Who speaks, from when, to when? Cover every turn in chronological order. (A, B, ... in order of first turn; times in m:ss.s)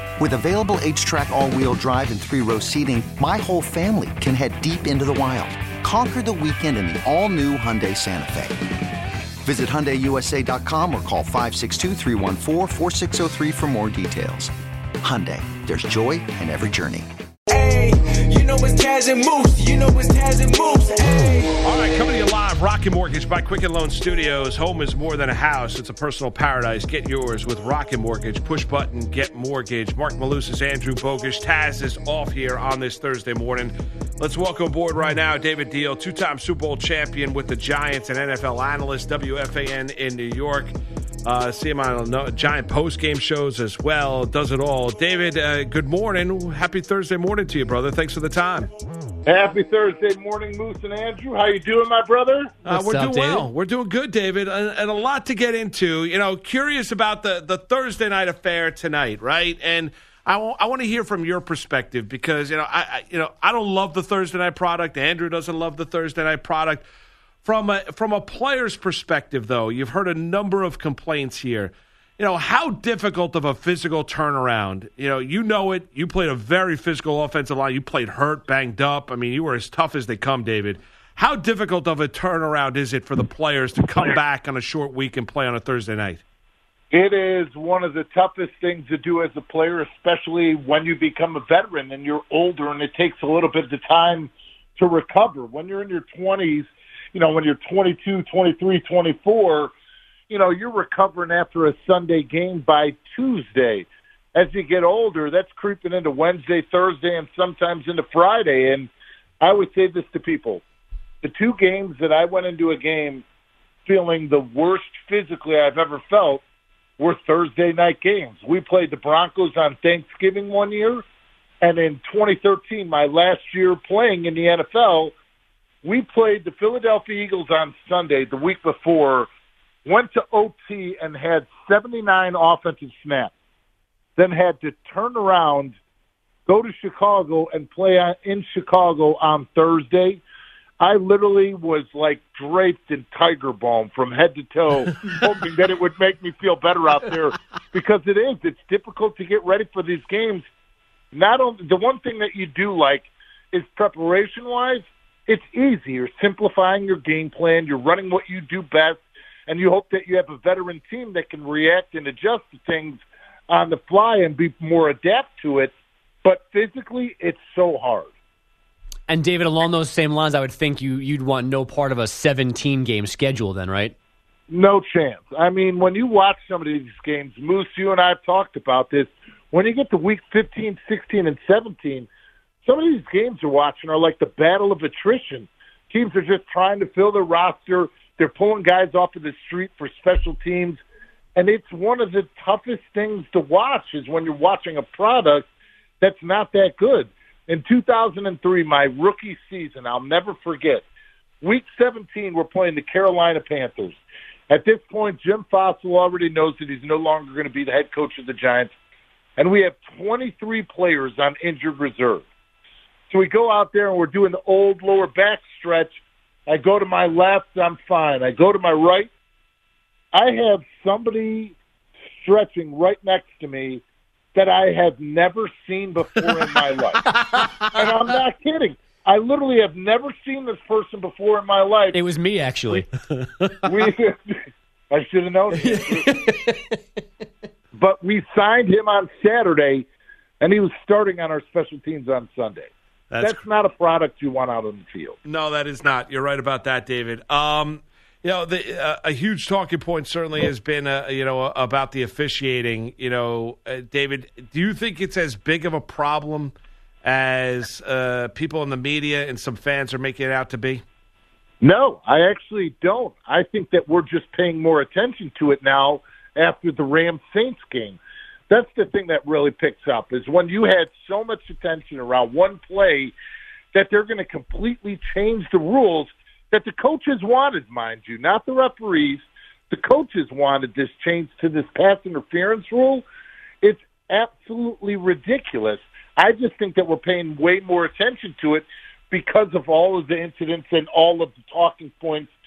0:00.2-0:08.6 A
0:09.4-0:17.1 A
0:17.5-0:21.6 B
0:21.6-0:40.7 C
0:41.2-0:48.7 C
0:49.3-0:52.6 D
0:52.6-1:06.8 C
0:52.7-0:53.5 E
1:07.4-1:26.2 C
1:26.9-1:39.7 D
1:40.3-1:48.9 D
1:49.4-1:50.6 D
1:51.2-1:53.2 D
1:53.9-1:56.4 D
1:57.0-2:01.0 D
2:01.6-2:05.1 D
2:05.8-2:09.3 D
2:09.8-2:13.3 D
2:14.2-2:15.8 D
2:16.5-2:20.2 D
2:20.8-2:30.5 D
2:31.1-2:48.1 D
2:49.1-2:53.9 E
2:54.5-3:02.1 D
3:02.6-3:10.8 D
3:11.4-3:15.5 D
3:16.0-3:20.8 D
3:21.4-3:24.0 D
3:24.5-3:28.7 D
3:29.4-3:32.2 D
3:33.1-3:39.1 D
3:40.1-3:41.5 D
3:42.2-3:43.8 D
3:44.4-3:47.0 D
3:47.1-3:47.5 E
3:47.7-3:52.0 D
3:51.9-3:52.9 E
3:53.6-3:54.4 D
3:54.9-3:56.0 D
3:55.6-3:56.8 E
3:57.8-3:59.9 D
4:00.4-4:02.7 D
4:03.1-4:03.4 C
4:03.2-4:05.2 D
4:05.3-4:16.5 C
4:17.0-4:20.8 C
4:21.6-4:28.0 D
4:28.5-4:33.1 D
4:33.7-4:43.0 D
4:43.6-4:52.3 D